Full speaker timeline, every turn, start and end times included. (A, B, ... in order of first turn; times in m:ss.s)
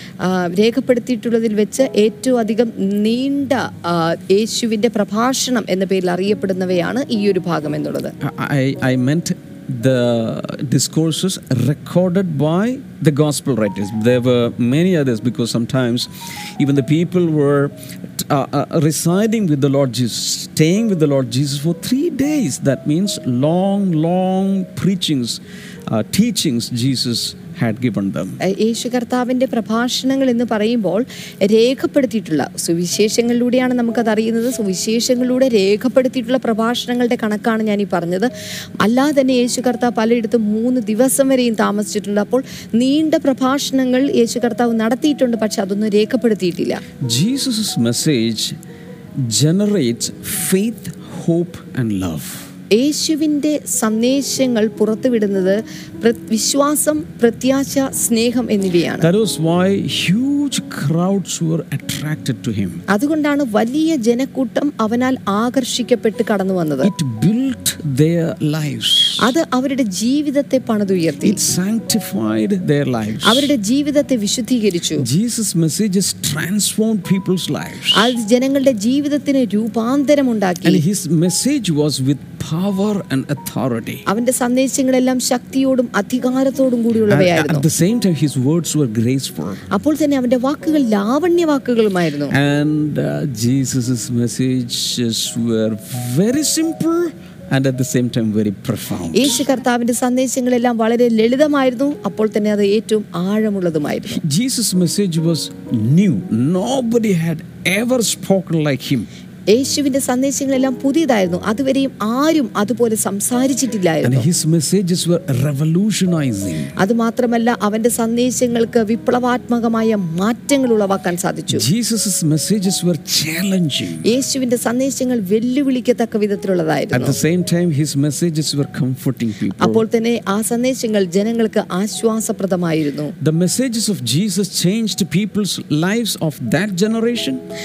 0:00.2-0:08.2 A
0:08.2-0:28.4 B
0:28.4-0:46.8 A
0:47.0-0:48.6 B
0:49.2-0:52.5 B
0:52.7-0:59.1 A
0:59.0-1:02.8 B
1:02.9-1:06.9 A
1:06.8-1:09.3 B
1:09.2-1:11.4 A
1:11.2-1:13.5 B
1:13.2-1:15.1 A
1:15.0-1:18.1 B
1:17.9-1:20.8 A
1:20.6-1:24.0 B
1:24.1-1:27.6 A
1:27.1-1:29.6 B
1:29.7-1:32.4 A
1:32.3-1:39.4 B
1:39.1-1:44.2 A
1:44.1-1:49.1 B
1:49.5-1:54.3 A
1:54.0-1:56.7 B
1:56.8-2:01.7 A
2:01.5-2:04.1 B
2:04.0-2:07.2 A
2:06.9-2:09.8 B
2:09.6-2:13.1 A
2:13.2-2:17.4 B